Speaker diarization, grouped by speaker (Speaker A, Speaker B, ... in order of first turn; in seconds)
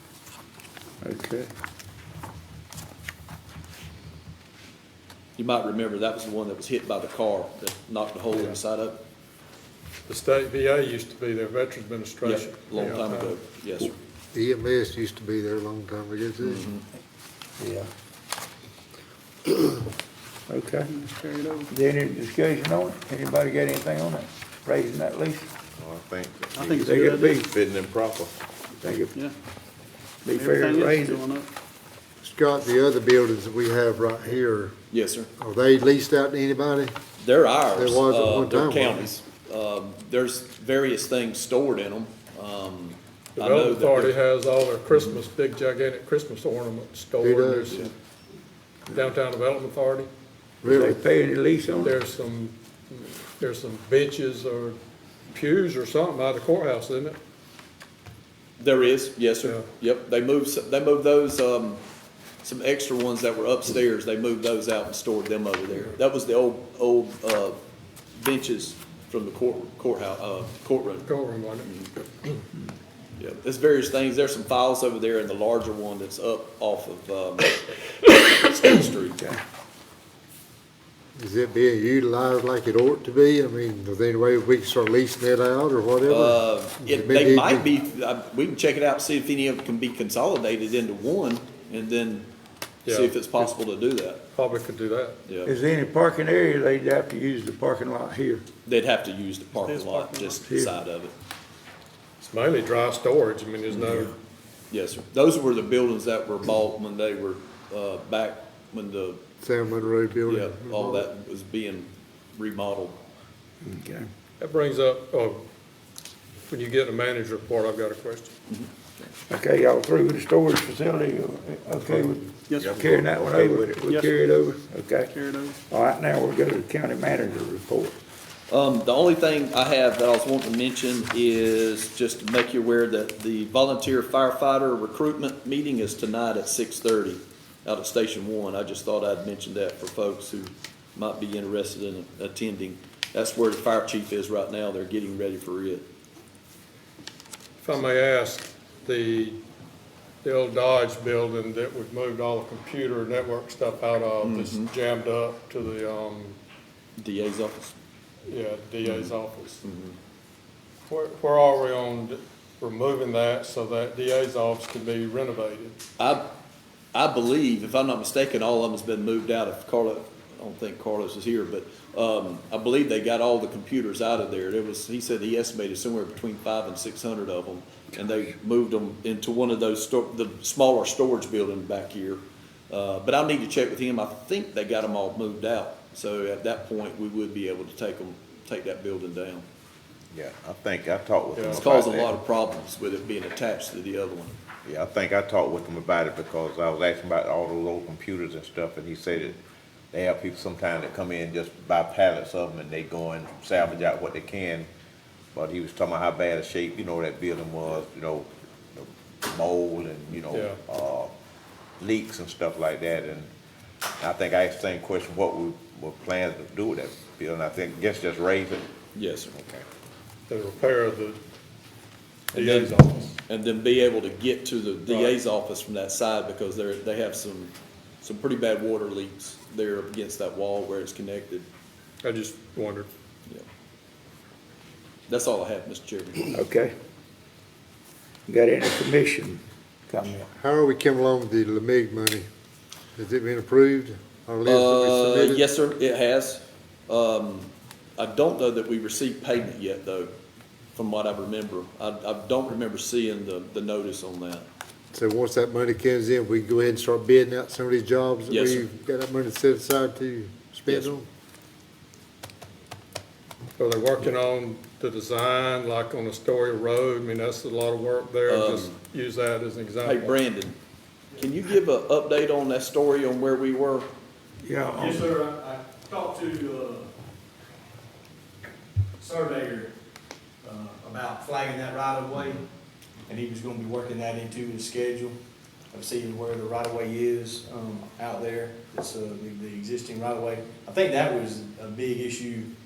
Speaker A: 1.0-1.5, 17.6-17.9, 19.5-19.8, 20.5-20.9, 21.7-25.5, 26.8-27.5, 28.8-29.1, 30.2-31.2, 50.6-52.0, 95.5-98.4, 100.4-100.7, 113.6-114.1, 119.3-125.1, 125.7-128.0, 236.3-236.7, 238.3-240.3, 274.4-275.2
Speaker B: 5.4-9.0, 12.2-13.9, 16.4-16.8, 34.9-35.3, 37.2-44.1, 58.6-61.8, 62.4-67.6, 68.2-71.1, 71.6-71.9, 73.2-79.2, 86.0-92.3, 92.8-94.2, 95.2-95.5, 98.7-101.1, 104.7-109.2, 110.3-113.0, 118.5-119.1, 128.5-145.8, 154.2-154.7, 157.0-157.7, 158.8-159.9, 166.0-166.3, 166.9-189.4, 191.5-194.3, 218.9-219.3, 222.3-231.4, 235.1-236.4, 244.4-250.1, 250.7-254.4, 258.3-258.7, 260.7-260.9, 268.3-268.8, 269.8-270.6, 271.2-273.9
Speaker C: 10.1-13.4, 43.4-47.9, 48.9-50.1, 51.8-54.8, 55.3-57.2, 71.0-71.7, 92.8-93.5, 94.3-95.2, 102.2-104.1, 114.4-115.4, 116.5-118.3, 147.6-149.4, 150.2-156.4, 158.3-159.6, 160.9-165.8, 191.3-191.6, 210.3-210.6, 220.3-221.2, 222.3-223.2, 224.9-225.1, 232.0-232.9, 263.6-270.2
Speaker D: 14.3-16.6, 32.2-34.7, 35.4-36.9, 37.7-39.1, 47.2-47.8, 50.6-51.0, 81.2-87.6, 109.4-111.1, 240.3-242.2, 242.9-245.5, 254.9-261.1
Speaker E: 20.9-21.7, 26.5-27.4, 30.3-31.5, 99.8-100.3, 122.5-122.9, 123.8-124.2, 125.1-125.6
Speaker F: 25.8-28.3, 122.5-122.8, 190.1-192.1, 194.7-199.4, 199.9-204.7, 205.3-211.1, 211.8-213.3, 214.0-218.7, 219.3-219.6
Speaker G: 274.7-276.9, 279.0-279.7, 280.4-282.4, 283.1-285.1, 285.7-292.5